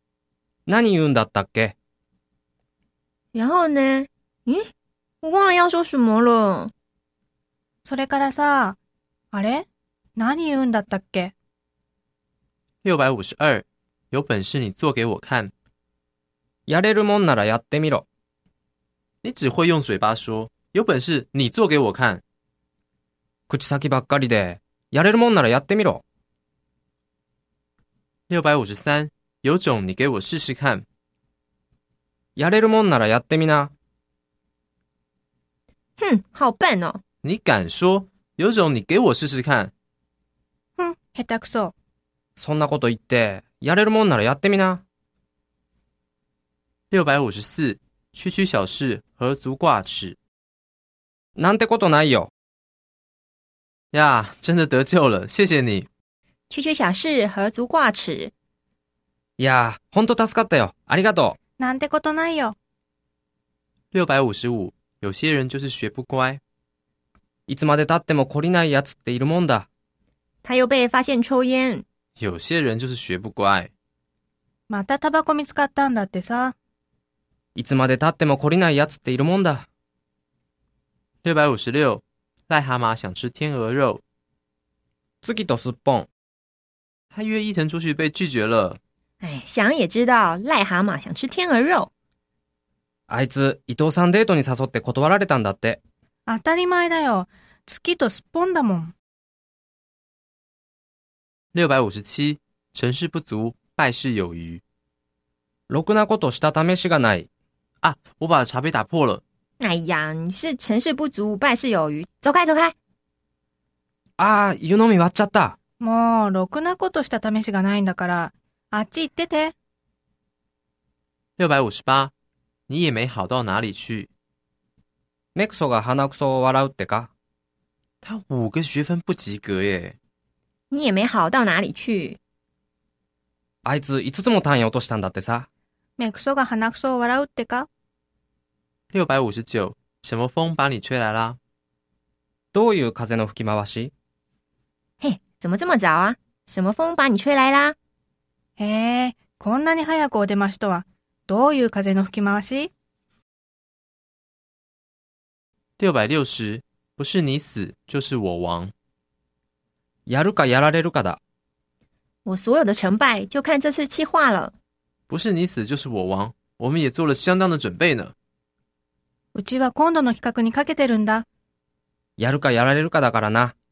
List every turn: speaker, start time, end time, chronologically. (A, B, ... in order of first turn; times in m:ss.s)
0:00.7-0:01.7 A
0:03.3-0:04.7 B
0:05.2-0:06.7 B
0:07.8-0:08.8 C
0:09.3-0:11.3 C
0:12.8-0:15.5 D
0:16.7-0:18.0 A
0:19.2-0:22.2 D
0:23.5-0:26.0 A
0:28.3-0:30.8 D
0:32.4-0:33.7 A
0:36.0-0:37.0 B
0:37.2-0:39.7 D
0:40.8-0:41.7 C
0:42.4-0:44.8 A
0:46.9-0:50.2 D
0:51.4-0:52.3 A
0:53.9-0:55.9 D
0:56.5-0:58.3 B
0:59.4-1:01.4 A
1:01.6-1:02.6 C
1:03.9-1:06.4 D
1:07.5-1:09.7 A
1:10.4-1:11.8 B
1:12.2-1:13.7 D
1:14.7-1:16.5 C
1:17.6-1:19.7 A
1:21.2-1:24.0 D
1:25.2-1:26.1 A
1:27.1-1:28.8 D
1:29.2-1:31.9 B
1:33.1-1:35.8 A
1:36.2-1:38.9 C
1:41.5-1:44.6 D
1:45.7-1:47.3 A
1:47.8-1:49.2 D
1:49.6-1:52.7 B
1:54.2-1:55.6 A
1:55.8-1:59.5 C
2:01.4-2:02.1 D
2:02.7-2:04.1 D
2:05.3-2:07.1 A
2:08.0-2:10.0 D
2:10.7-2:12.2 B
2:13.6-2:15.5 A
2:16.0-2:17.7 C
2:18.9-2:21.4 D
2:22.5-2:23.9 A
2:25.0-2:27.7 B
2:28.6-2:32.7 C
2:35.8-2:38.7 D
2:40.1-2:41.2 A
2:42.2-2:44.5 B
2:45.1-2:48.1 D
2:49.3-2:51.2 C
2:52.2-2:53.5 A